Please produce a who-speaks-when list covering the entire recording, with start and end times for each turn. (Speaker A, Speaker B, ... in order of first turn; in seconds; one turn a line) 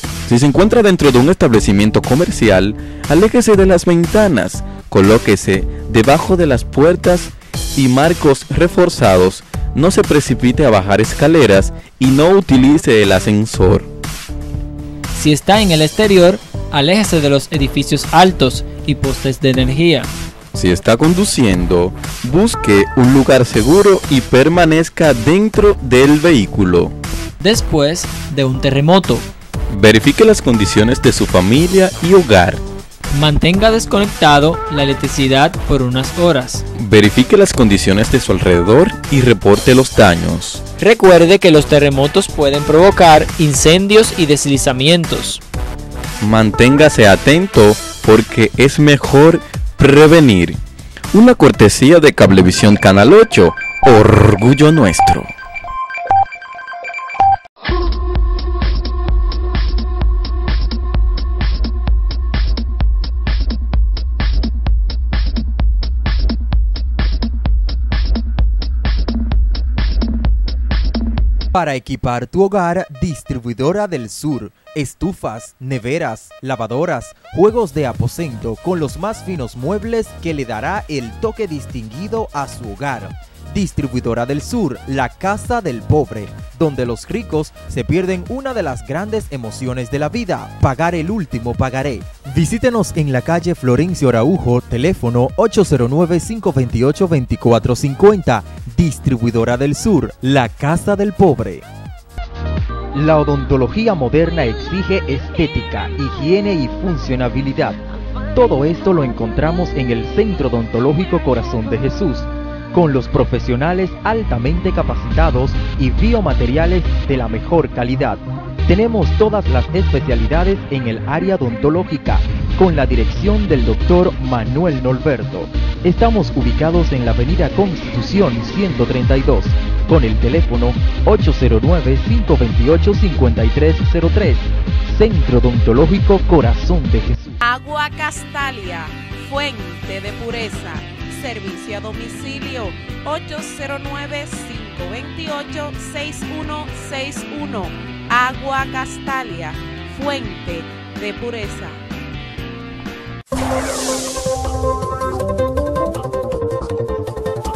Speaker A: 0.3-13.9
Speaker B: 15.2-20.1
Speaker A: 20.5-26.9
Speaker B: 27.4-29.2
Speaker A: 29.7-32.6
Speaker B: 33.1-36.6
Speaker A: 36.8-40.6
Speaker B: 40.8-45.4
Speaker A: 46.2-50.6
Speaker A: 51.1-55.3
Speaker C: 71.5-101.7
Speaker C: 102.9-107.8
Speaker C: 108.3-137.4
Speaker D: 137.4-151.8